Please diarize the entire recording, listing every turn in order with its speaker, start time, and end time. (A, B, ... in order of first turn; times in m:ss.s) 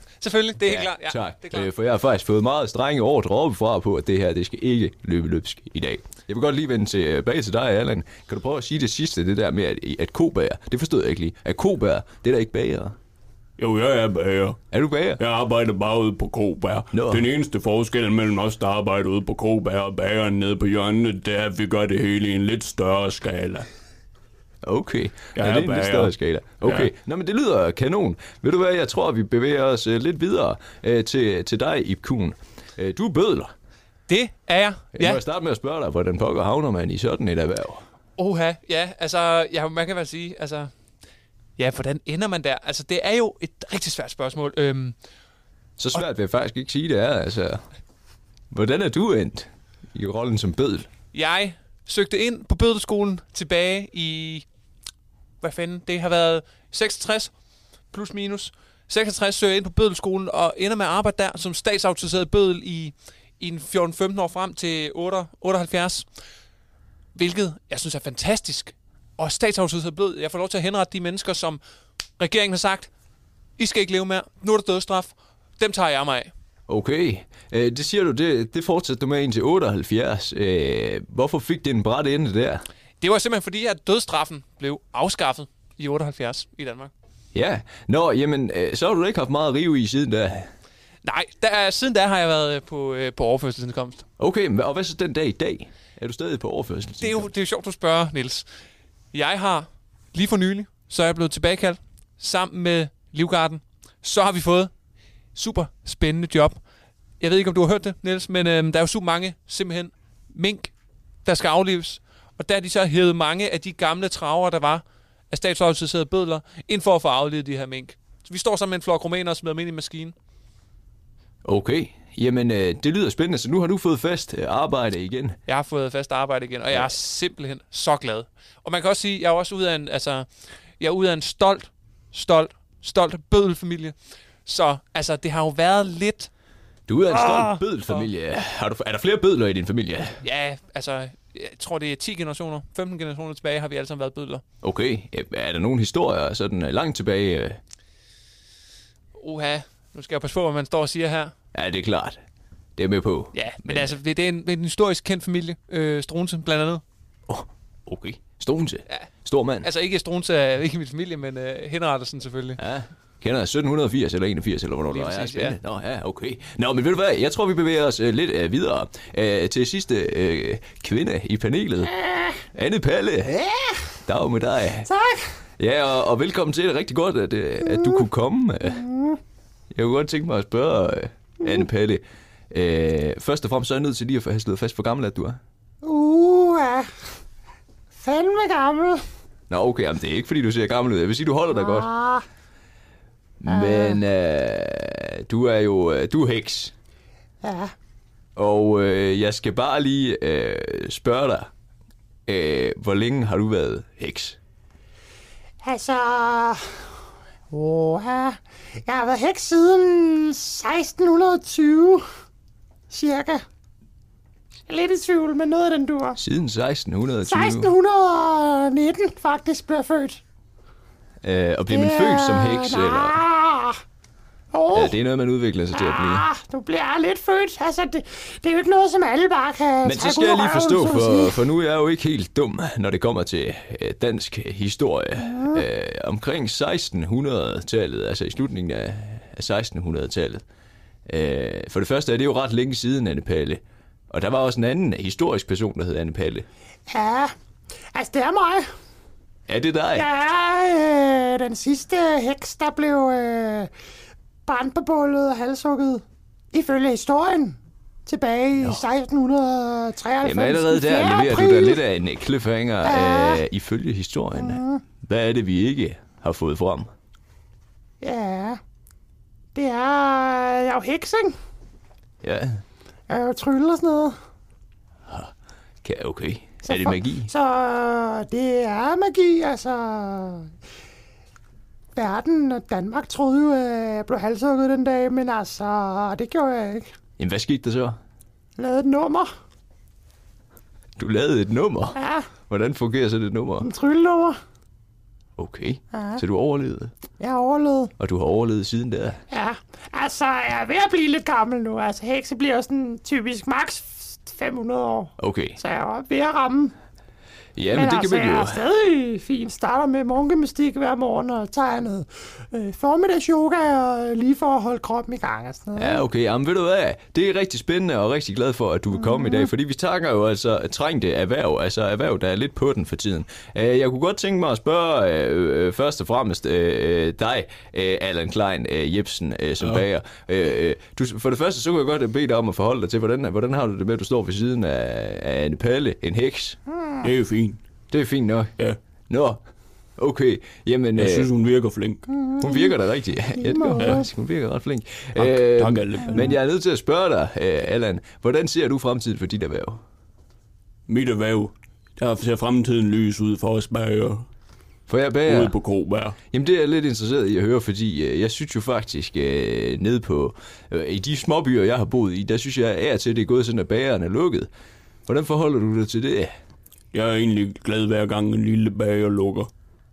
0:00.2-0:01.7 A
0:00.6-0:13.0 B
0:13.6-0:14.6 C
0:14.7-0:15.2 B
0:15.2-0:23.7 C
0:16.9-0:17.3 B
0:24.6-0:33.5 B
0:25.4-0:26.9 C
0:34.1-0:35.2 A
0:34.9-0:37.8 B
0:38.2-0:40.7 A
0:41.6-0:45.0 A
0:45.8-0:47.6 B
0:48.5-0:50.9 B
0:51.1-0:54.4 A
0:55.4-0:57.3 A
0:57.9-1:06.1 A
1:07.2-1:11.6 A
1:12.2-1:12.9 A
1:13.6-1:16.3 A
1:16.7-1:22.6 B
1:23.0-1:26.9 A
1:27.3-1:30.5 B
1:31.0-1:34.0 A
1:34.2-1:37.3 B
1:37.0-1:38.5 A
1:39.1-1:44.7 A
1:45.4-1:46.6 A
1:47.2-1:50.7 A
1:51.2-2:00.2 A
2:01.4-2:05.4 B
2:05.5-2:10.3 A
2:10.8-2:16.3 A
2:16.9-2:20.2 B
2:17.1-2:17.6 D
2:20.2-2:24.4 A
2:24.6-2:27.6 B
2:29.2-2:31.3 A
2:31.5-2:32.2 B
2:32.8-2:34.0 B
2:33.3-2:36.8 A
2:37.3-2:39.7 B
2:39.6-2:42.6 A
2:42.6-2:51.9 B
2:44.9-2:45.6 A
2:51.8-2:52.4 D
2:52.5-2:53.3 B
2:53.3-2:53.7 D
2:54.1-2:54.9 B
2:54.8-2:55.2 D
2:55.6-2:58.8 B
2:57.6-2:58.0 D
2:58.6-2:59.2 D
2:59.7-3:05.4 B
3:05.8-3:06.9 D
3:07.9-3:09.0 D
3:09.5-3:11.9 B
3:11.5-3:12.2 D
3:13.4-3:16.7 B
3:13.5-3:14.0 D
3:17.4-3:17.7 D
3:18.4-3:21.5 B
3:22.3-3:24.4 B
3:25.6-3:26.6 D
3:27.5-3:32.0 D
3:32.9-3:33.4 D
3:34.7-3:36.2 D
3:36.2-3:37.7 B
3:37.2-3:40.2 D
3:41.2-3:43.2 B
3:41.7-3:43.8 D
3:44.5-3:45.0 D
3:44.7-3:46.2 B
3:45.7-3:51.4 D
3:49.8-4:00.4 B
3:55.2-3:55.6 D
4:01.1-4:06.5 B
4:06.9-4:07.3 D
4:07.9-4:08.7 D
4:09.5-4:10.1 B
4:09.9-4:13.7 D
4:14.5-4:21.8 D
4:20.2-4:26.9 B
4:22.8-4:23.4 D
4:24.3-4:24.8 D
4:28.0-4:28.6 D
4:29.6-4:31.4 D
4:32.2-4:32.6 B
4:33.1-4:34.2 D
4:35.8-4:37.3 B
4:36.7-4:40.5 D
4:42.0-4:46.9 D
4:47.2-4:48.0 B
4:48.6-4:49.3 D
4:51.0-4:53.7 B
4:52.0-4:52.3 D
4:53.6-4:54.4 D
4:55.4-4:56.9 B
4:55.9-4:56.2 D
4:57.2-4:57.9 D
4:58.0-4:59.2 B
4:59.3-5:06.7 D
5:05.2-5:05.6 B
5:07.6-5:08.6 B
5:07.7-5:16.0 D
5:15.8-5:36.6 B
5:18.9-5:19.5 D
5:37.0-5:37.6 C
5:37.9-5:38.5 B
5:39.1-5:39.4 B
5:40.0-5:41.3 B
5:41.0-5:42.0 C
5:42.1-5:42.8 D
5:42.4-5:49.8 B
5:43.4-5:44.1 D
5:45.2-5:46.4 C
5:50.9-5:54.3 C
5:54.9-5:55.6 B
5:55.2-5:56.2 C
5:56.3-6:04.5 B
6:05.1-6:06.3 B
6:06.9-6:09.5 C